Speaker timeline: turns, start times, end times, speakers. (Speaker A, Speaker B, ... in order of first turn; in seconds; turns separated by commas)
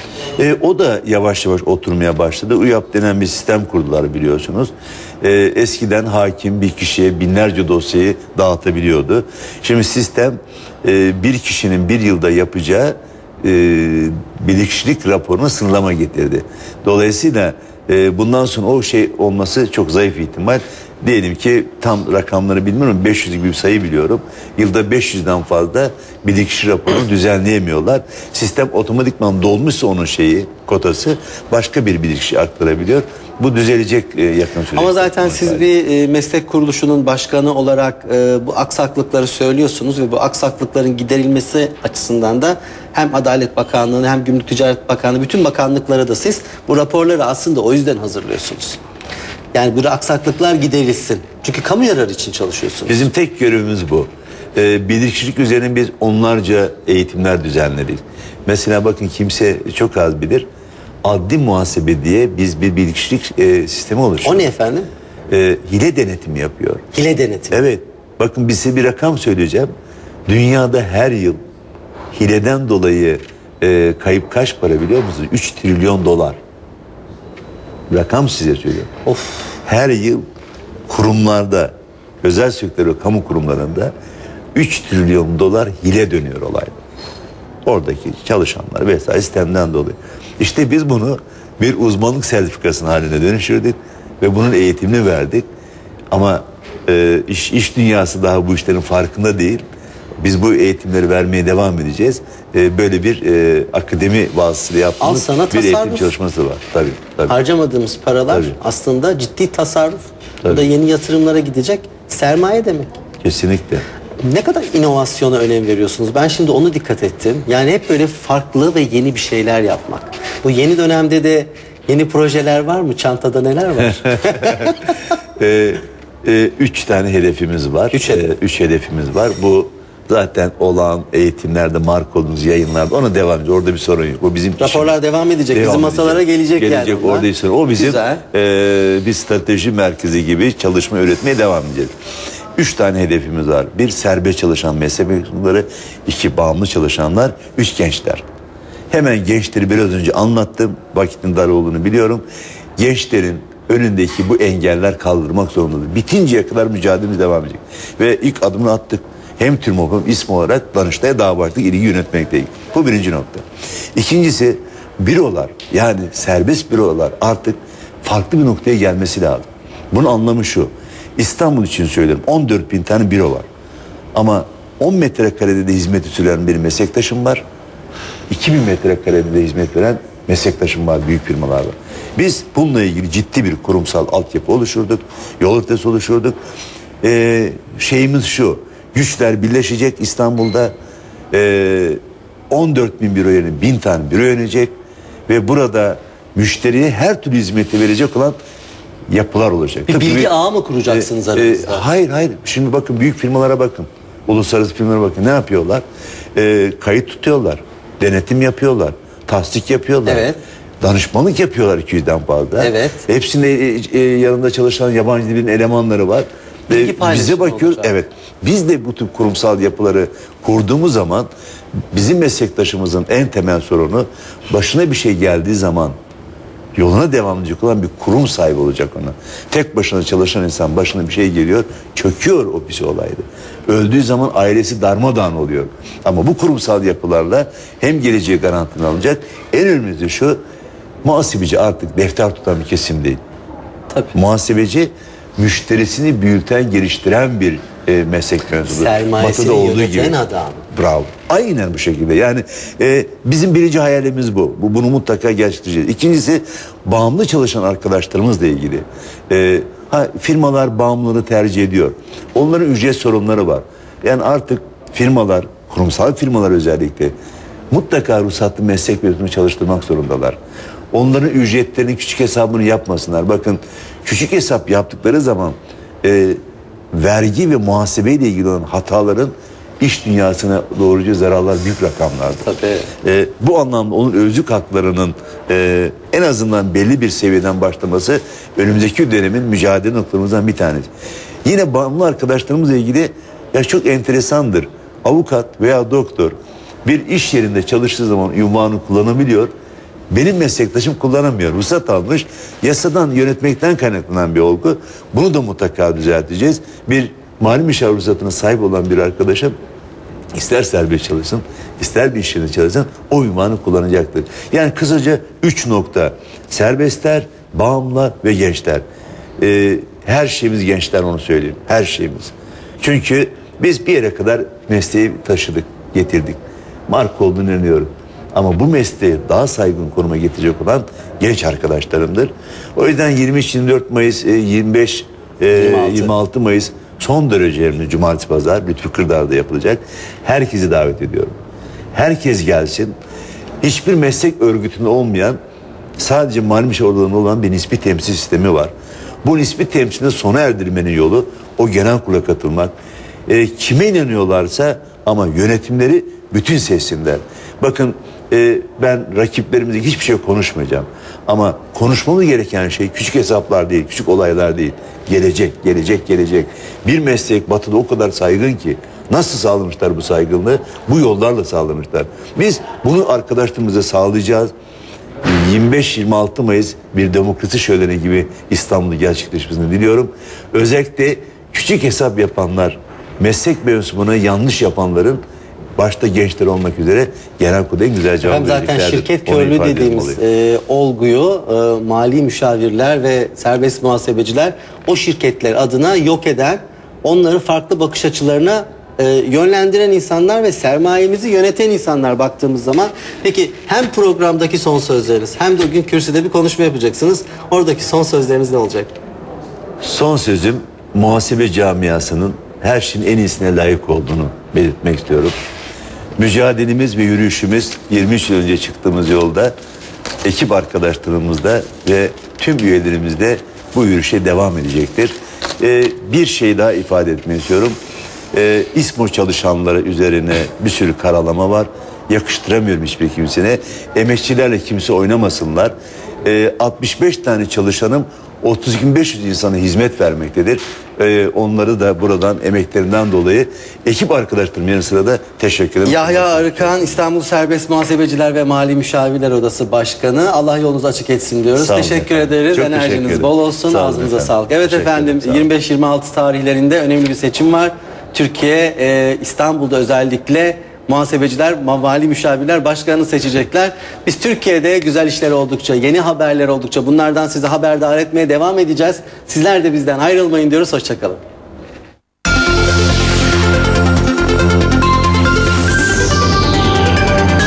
Speaker A: 0.4-35.7, Speaker B: 34.8-48.8, Speaker B: 49.5-53.1, Speaker A: 52.9-60.5, Speaker A: 61.0-64.5, Speaker B: 64.2-64.9, Speaker A: 65.3-66.8, Speaker B: 66.9-67.6, Speaker A: 67.5-69.7, Speaker A: 70.3-71.4, Speaker A: 72.1-76.4, Speaker A: 77.9-78.9, Speaker B: 79.1-79.5, Speaker A: 79.7-80.2, Speaker A: 80.9-83.9, Speaker A: 84.5-86.7, Speaker A: 87.7-95.5, Speaker A: 96.1-99.7, Speaker A: 100.2-107.4, Speaker B: 105.0-106.1, Speaker B: 107.3-112.9, Speaker A: 108.3-108.5, Speaker A: 113.2-113.8, Speaker B: 114.2-124.9, Speaker A: 124.3-124.8, Speaker A: 125.4-134.9, Speaker B: 127.9-128.3, Speaker B: 134.6-138.2, Speaker A: 135.5-141.9, Speaker A: 142.6-148.2, Speaker A: 148.9-152.2, Speaker A: 152.8-163.4, Speaker A: 164.0-173.5, Speaker A: 174.2-177.4, Speaker A: 178.3-186.4, Speaker A: 187.0-190.7, Speaker A: 191.3-194.7, Speaker A: 195.3-198.4, Speaker A: 199.1-200.3, Speaker B: 199.9-201.9, Speaker A: 200.9-205.8, Speaker A: 206.3-210.3, Speaker B: 210.1-210.4, Speaker A: 210.8-221.3, Speaker B: 212.6-213.1, Speaker B: 216.7-217.9, Speaker A: 221.9-226.0, Speaker A: 226.8-240.4, Speaker A: 241.0-243.2, Speaker A: 244.2-250.2, Speaker B: 248.7-250.7, Speaker A: 250.7-267.1, Speaker A: 267.7-270.4, Speaker A: 270.9-276.4, Speaker A: 276.9-282.5, Speaker B: 282.4-282.9, Speaker A: 283.0-290.9, Speaker A: 291.4-299.5, Speaker A: 300.1-309.6, Speaker A: 310.3-318.8, Speaker A: 319.4-341.4, Speaker B: 335.5-336.1, Speaker A: 341.9-342.9, Speaker A: 343.6-345.4, Speaker A: 346.0-348.7, Speaker A: 349.2-352.8, Speaker A: 353.3-374.5, Speaker A: 375.2-385.2, Speaker A: 385.8-390.2, Speaker B: 388.2-408.9, Speaker A: 409.8-415.3, Speaker A: 416.2-419.6, Speaker A: 420.2-427.8, Speaker A: 428.3-447.0, Speaker B: 445.9-471.2, Speaker A: 451.6-455.5